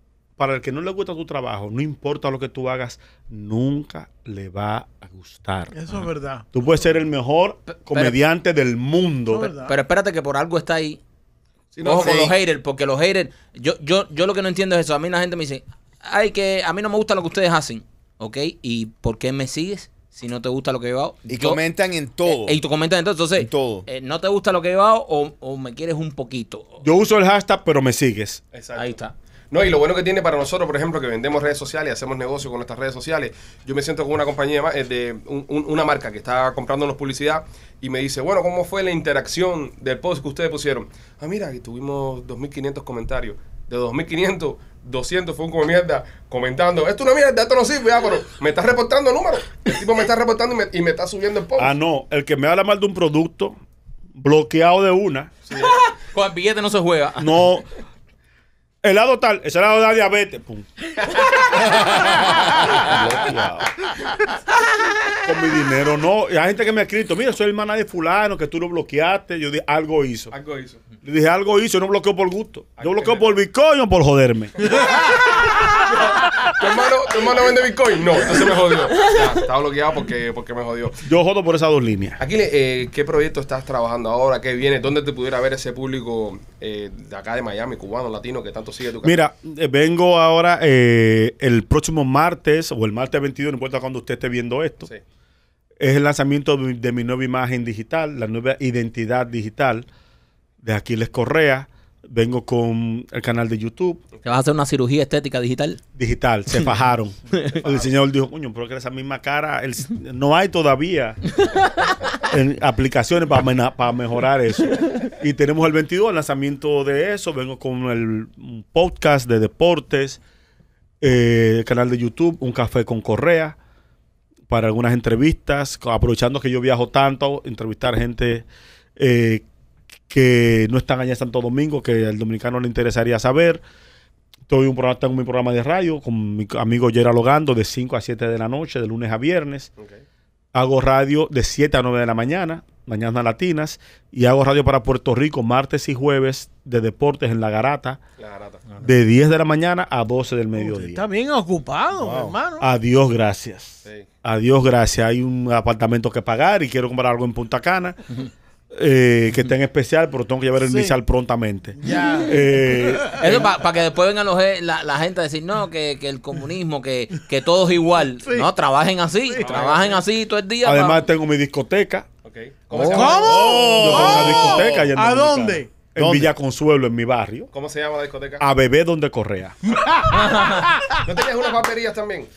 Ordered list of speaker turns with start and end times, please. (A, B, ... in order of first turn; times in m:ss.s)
0:00.4-0:05.7 A
0:05.7-0:06.5 B
0:06.5-0:09.5 A
0:07.7-0:08.2 C
0:09.3-0:09.8 B
0:09.7-0:11.0 C
0:11.7-0:12.3 D
0:11.8-0:21.6 C
0:11.9-0:12.3 E
0:21.3-0:22.6 E
0:22.3-0:26.8 C
0:23.4-0:23.9 E
0:26.8-0:28.4 A
0:28.5-0:29.0 D
0:28.8-0:29.1 C
0:29.5-0:51.7 D
0:51.6-0:53.6 A
0:54.2-0:55.3 A
0:55.5-0:55.8 D
0:55.6-0:57.3 C
0:57.2-0:57.6 A
0:58.8-1:00.9 A
1:02.7-1:03.7 A
1:05.3-1:10.3 A
1:10.3-1:10.8 D
1:11.0-1:14.6 A
1:12.8-1:13.3 D
1:14.7-1:21.0 D
1:21.0-1:22.2 A
1:22.2-1:29.2 D
1:29.0-1:34.9 A
1:35.8-1:39.9 A
1:40.6-1:44.0 A
1:44.2-1:45.8 C
1:46.0-1:51.3 A
1:47.6-1:47.9 D
1:52.2-2:00.2 A
2:01.0-2:03.6 A
2:04.5-2:09.4 A
2:10.1-2:13.6 A
2:14.5-2:19.7 A
2:19.8-2:20.0 D
2:20.5-2:28.0 A
2:28.2-2:28.7 D
2:28.8-2:31.0 A
2:30.6-2:32.6 B
2:32.0-2:32.4 E
2:32.6-2:38.0 A
2:38.7-2:43.4 A
2:40.6-2:41.0 B
2:41.8-2:42.4 B
2:43.2-2:51.0 C
2:48.2-2:48.5 B
2:49.3-2:49.7 B
2:49.4-2:50.0 D
2:50.6-2:52.1 A
2:52.2-2:53.6 D
2:52.8-2:53.0 C
2:52.8-2:54.9 E
2:52.9-2:55.8 B
2:53.8-2:57.5 A
2:56.0-2:56.3 E
2:57.5-2:58.5 D
2:58.4-2:59.6 A
2:59.7-3:01.0 B
2:59.7-3:00.0 D
3:00.1-3:00.7 C
3:01.0-3:02.3 D